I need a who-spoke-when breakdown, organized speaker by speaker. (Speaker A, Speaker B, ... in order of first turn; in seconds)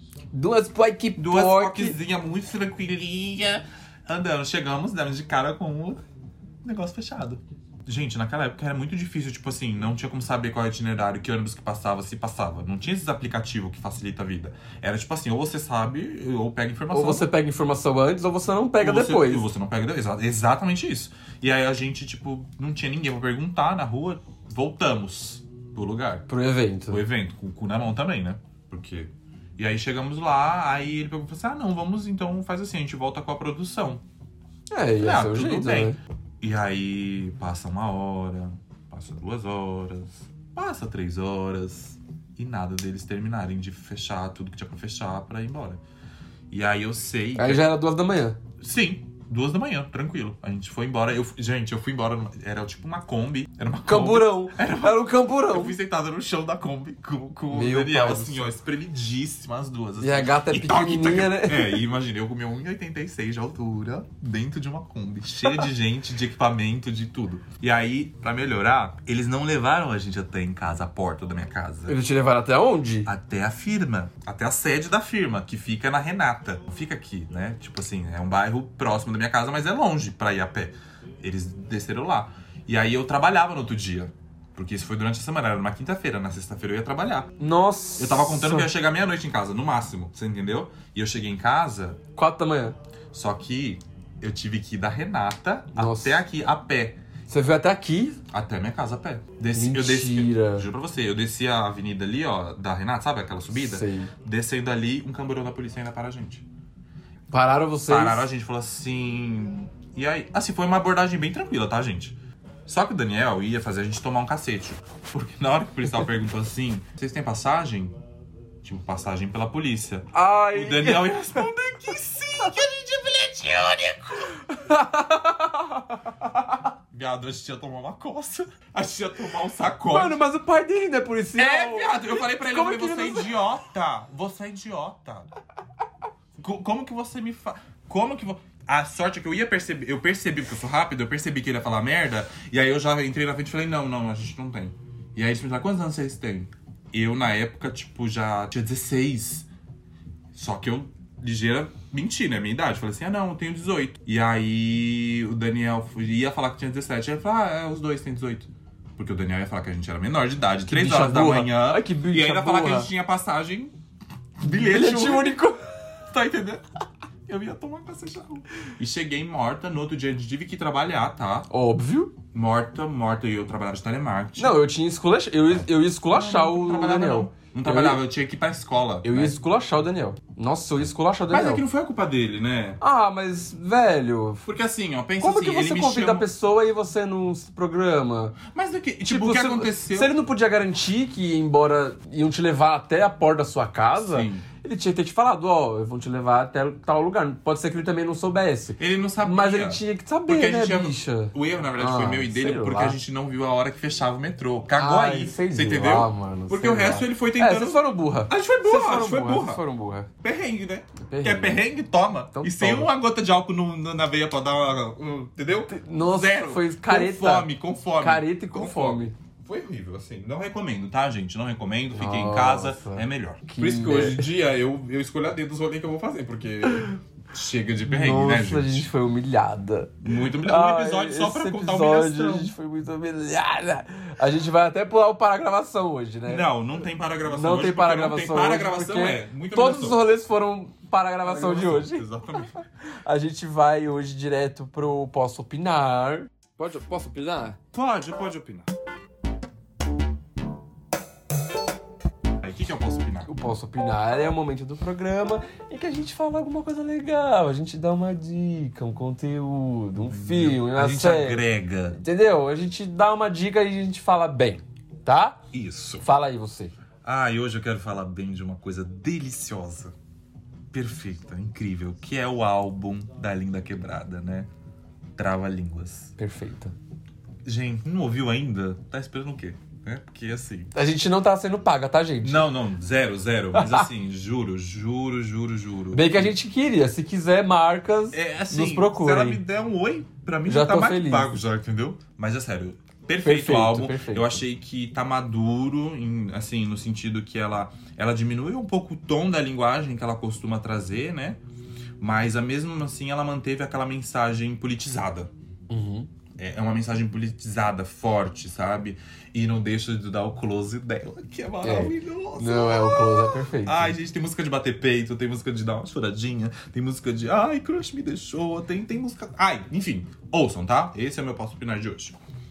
Speaker A: 0.3-2.0, 16.9-19.5, 26.3-27.0, 34.7-36.0, 47.4-48.4, 53.8-55.7, 57.5-58.5, 60.0-61.8, 71.9-73.1, 87.4-88.7, 92.2-92.8, 95.8-96.2, 97.3-98.2, 99.5-100.7, 103.5-104.1, 107.3-108.3, 120.1-121.4, 124.4-126.5, 129.9-133.3, 160.7-162.9, 164.4-165.6, 171.5-172.1, 174.4-178.0, 179.0-181.6, 182.8-184.4, 185.2-188.4, 189.0-203.0, 204.8-210.1, 211.0-211.6, 212.3-212.9, 215.7-219.1, 221.9-224.2, 227.8-236.5, 237.3-247.6, 253.2-265.4, 266.0-266.8, 276.2-276.7, 280.7-282.5, 283.5-283.9, 285.9-289.4, 290.4-291.3, 293.2-294.4, 305.7-306.1, 311.6-313.9
Speaker B: 1.2-6.0, 6.6-17.3, 18.8-26.3, 26.9-34.0, 35.0-45.8, 46.5-47.6, 48.6-72.0, 73.0-87.3, 88.0-92.0, 93.1-97.0, 98.3-106.5, 107.9-118.0, 118.6-124.4, 126.9-130.2, 131.3-135.3, 136.4-149.5, 150.3-163.7, 164.4-165.4, 166.1-166.6, 167.3-171.5, 172.3-174.6, 175.5-179.3, 181.3-182.8, 184.4-186.3, 188.4-190.1, 194.0-194.4, 198.8-209.6, 210.2-228.9, 230.0-232.5, 236.2-240.0, 241.2-242.5, 247.7-248.7, 252.4-253.3, 260.1-262.0, 265.5-266.0, 267.0-269.9, 270.7-274.5, 275.1-276.1, 277.4-280.7, 282.2-286.3, 288.1-301.4, 302.0-305.3, 306.4-322.2